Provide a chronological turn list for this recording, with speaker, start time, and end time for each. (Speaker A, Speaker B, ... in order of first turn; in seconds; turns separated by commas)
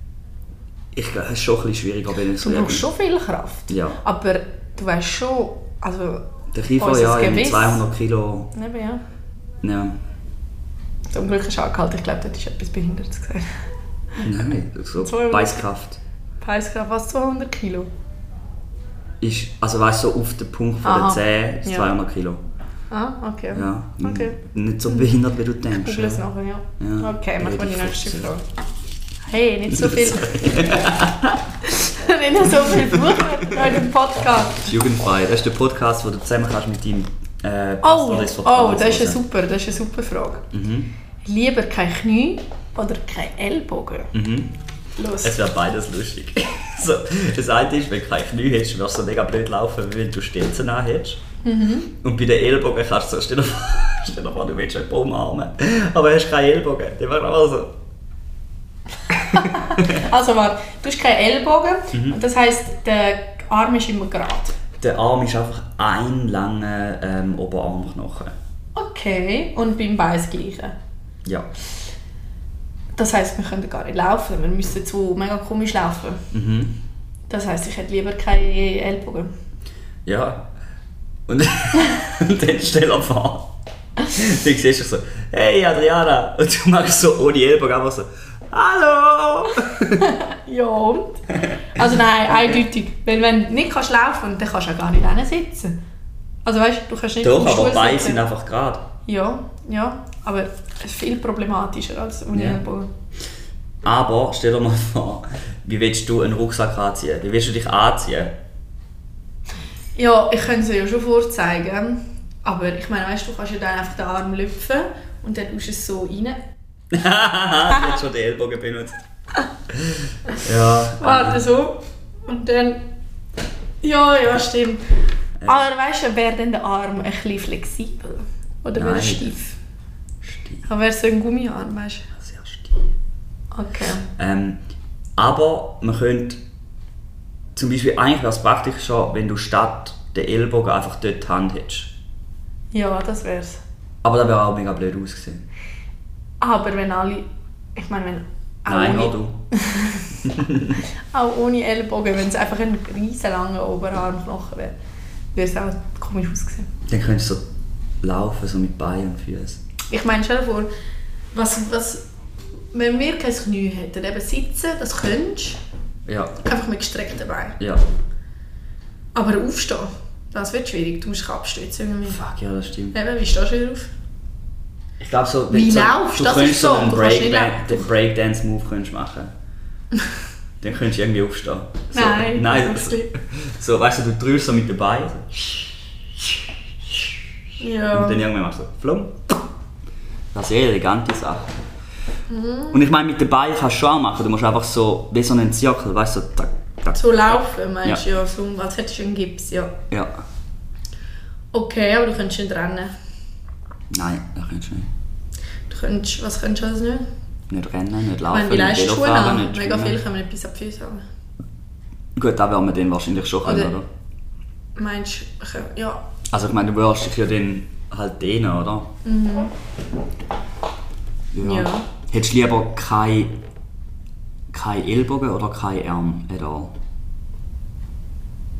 Speaker A: 0.9-2.9, Speaker B: 2.4-7.8, Speaker A: 3.7-4.0, Speaker A: 6.5-8.5, Speaker B: 8.5-9.0, Speaker A: 9.6-9.9, Speaker B: 11.1-13.5, Speaker A: 14.2-16.0, Speaker B: 15.0-15.6, Speaker B: 16.4-17.9, Speaker A: 19.2-22.4, Speaker B: 20.8-21.9, Speaker B: 22.9-25.1, Speaker A: 23.5-26.2, Speaker B: 25.7-28.4, Speaker A: 26.8-28.3, Speaker B: 29.2-30.4, Speaker A: 29.7-31.4, Speaker B: 31.6-34.7, Speaker A: 32.6-33.8, Speaker A: 34.6-39.2, Speaker B: 37.8-40.5, Speaker A: 40.5-40.9, Speaker B: 41.2-44.1, Speaker A: 44.1-44.5, Speaker B: 45.0-45.4, Speaker A: 45.2-51.2, Speaker B: 51.4-51.9, Speaker A: 51.9-57.7, Speaker B: 59.1-64.5, Speaker A: 59.4-60.0, Speaker A: 61.9-62.2, Speaker A: 64.8-68.3, Speaker B: 68.7-70.7, Speaker B: 73.0-76.2, Speaker A: 76.3-76.7, Speaker B: 77.3-79.3, Speaker A: 80.0-80.5, Speaker A: 81.3-83.5, Speaker A: 84.1-90.1, Speaker B: 89.8-91.2, Speaker A: 91.3-92.6, Speaker B: 91.7-95.8, Speaker B: 96.4-98.2, Speaker A: 97.2-98.9, Speaker B: 99.0-102.9, Speaker A: 102.3-102.6, Speaker A: 103.8-108.3, Speaker B: 110.0-116.4, Speaker A: 116.9-118.9, Speaker A: 119.7-121.4, Speaker B: 121.0-122.8, Speaker B: 123.8-124.8, Speaker A: 125.4-125.6, Speaker B: 125.4-129.6, Speaker A: 128.7-129.3, Speaker A: 130.2-130.6, Speaker B: 130.6-132.1, Speaker A: 132.2-132.8, Speaker B: 133.5-134.1, Speaker A: 134.2-134.6, Speaker A: 135.2-136.4, Speaker A: 137.5-141.9, Speaker B: 142.7-143.6, Speaker A: 144.0-145.4, Speaker B: 146.4-150.3, Speaker A: 148.7-149.4, Speaker A: 150.2-150.8, Speaker B: 151.1-154.8, Speaker B: 155.3-156.7, Speaker A: 156.9-157.4, Speaker A: 158.0-159.6, Speaker B: 159.9-160.7, Speaker B: 161.3-162.0, Speaker B: 162.7-165.6, Speaker A: 166.1-166.4, Speaker B: 166.4-167.6, Speaker A: 167.6-167.8, Speaker B: 169.1-172.2, Speaker A: 172.1-172.9, Speaker B: 172.9-173.9, Speaker A: 175.0-179.3, Speaker B: 175.5-177.9, Speaker A: 180.6-185.6, Speaker B: 181.9-183.1, Speaker A: 186.3-187.2, Speaker B: 187.6-188.2, Speaker A: 187.9-189.2, Speaker A: 190.3-191.5, Speaker B: 192.3-192.8, Speaker A: 192.7-198.0, Speaker B: 196.9-199.8, Speaker A: 199.9-200.2, Speaker B: 201.5-202.9, Speaker A: 203.9-204.9, Speaker B: 205.7-207.1, Speaker A: 207.5-210.0, Speaker B: 208.3-211.0, Speaker A: 212.2-213.8, Speaker B: 213.4-213.7, Speaker B: 214.8-216.0, Speaker A: 216.3-218.9, Speaker B: 219.0-219.5, Speaker A: 221.3-223.3, Speaker B: 221.4-221.9, Speaker A: 224.5-226.7